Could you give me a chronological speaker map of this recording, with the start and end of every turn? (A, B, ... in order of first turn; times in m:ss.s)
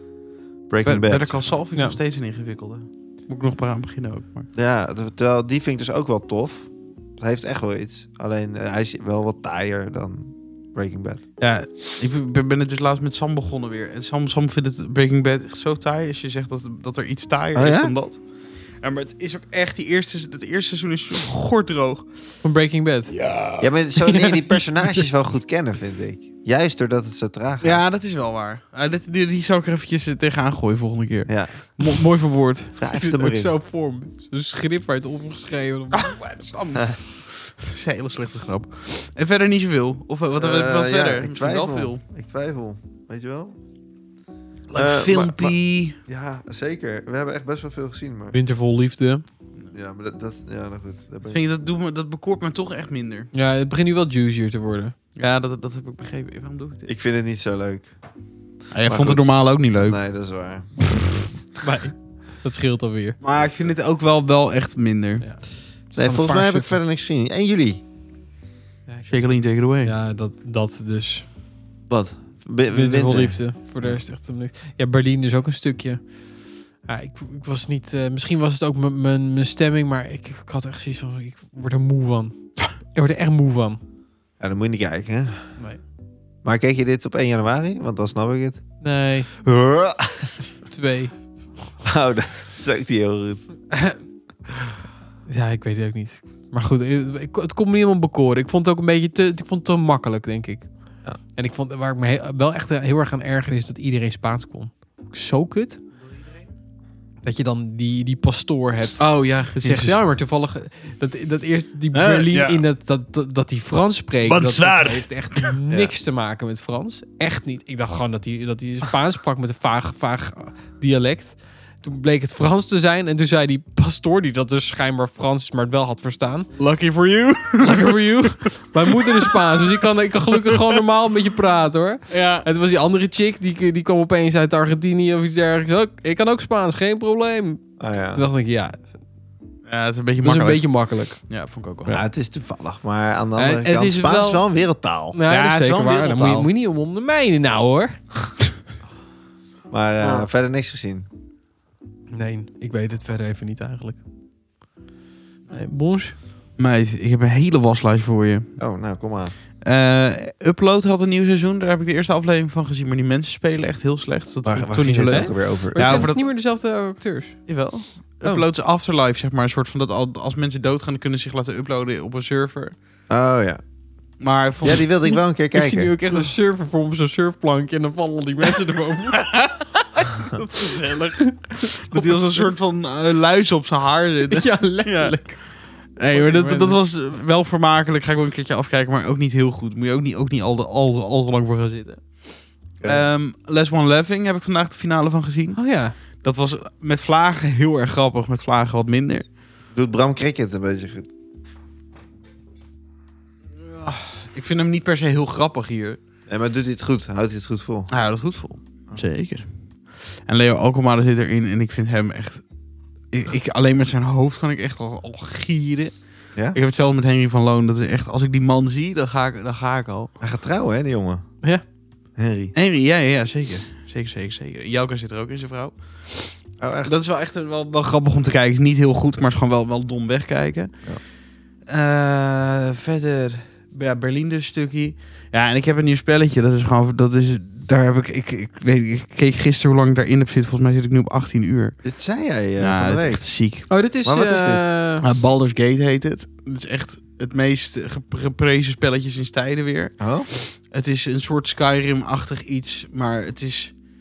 0:00.7-0:01.5 A
0:00.8-0:04.5 B
0:04.5-0:11.2 A
0:11.4-0:18.2 B
0:17.5-0:17.9 A
0:18.8-0:22.0 B
0:22.4-0:23.1 C
0:23.2-0:23.7 B
0:23.6-0:27.8 A
0:24.1-0:25.0 C
0:27.6-0:32.7 B
0:31.3-0:31.6 A
0:32.8-0:33.5 A
0:32.8-0:36.2 C
0:35.9-0:42.0 B
0:40.4-0:43.6 A
0:44.7-0:46.0 B
0:44.7-0:45.6 A
0:46.1-0:48.4 A
0:48.3-0:49.2 C
0:49.7-0:51.4 A
0:51.2-0:53.3 B
0:53.3-0:54.9 C
0:55.2-0:56.9 B
0:56.9-0:57.9 A
0:58.7-1:00.0 B
0:58.9-1:00.8 A
1:01.6-1:03.2 C
1:03.2-1:05.2 B
1:03.4-1:03.7 A
1:05.2-1:06.8 C
1:05.9-1:07.8 A
1:08.9-1:09.1 C
1:09.1-1:09.9 B
1:09.8-1:11.2 C
1:11.9-1:14.0 A
1:12.7-1:16.1 C
1:16.8-1:23.8 C
1:24.4-1:25.5 A
1:26.4-1:28.6 A
1:28.8-1:29.3 C
1:29.4-1:30.4 A
1:30.7-1:31.1 C
1:31.8-1:33.4 A
1:33.7-1:34.0 C
1:35.3-1:40.7 C
1:41.4-1:45.8 C
1:47.2-2:06.5 C
1:49.0-1:50.0 B
1:51.9-1:52.6 B
1:54.2-1:55.5 B
2:06.6-2:09.7 B
2:07.6-2:18.8 C
2:10.4-2:10.8 B
2:12.1-2:12.4 B
2:17.8-2:18.2 A
2:19.6-2:22.0 B
2:20.2-2:21.2 C
2:21.9-2:25.2 A
2:23.4-2:24.4 C
2:25.1-2:28.0 C
2:25.3-2:26.5 B
2:29.7-2:31.0 A
2:32.1-2:34.0 C
2:35.5-2:36.2 C
2:36.6-2:38.5 B
2:38.6-2:39.3 A
2:39.6-2:46.3 B
2:44.4-2:46.1 A
2:45.1-2:47.4 C
2:47.5-2:52.7 B
2:53.1-2:53.6 A
2:54.2-2:54.9 B
2:54.6-2:55.9 A
2:55.0-2:59.2 C
2:59.1-3:15.6 B
3:01.2-3:02.4 C
3:04.3-3:05.6 C
3:06.1-3:06.8 C
3:12.8-3:13.0 A
3:15.5-3:15.9 C
3:16.2-3:19.2 B
3:19.7-3:21.1 A
3:23.6-3:26.0 B
3:26.3-3:27.9 A
3:27.9-3:29.4 B
3:30.2-3:32.4 B
3:33.1-3:35.9 B
3:36.5-3:40.1 B
3:40.2-3:41.2 A
3:42.2-3:42.5 A
3:42.5-3:50.7 B
3:46.6-3:46.9 A
3:51.7-4:01.8 B
4:01.8-4:03.2 A
4:02.6-4:03.7 B
4:03.7-4:05.0 C
4:04.0-4:04.6 A
4:05.0-4:13.7 B
4:10.0-4:10.3 A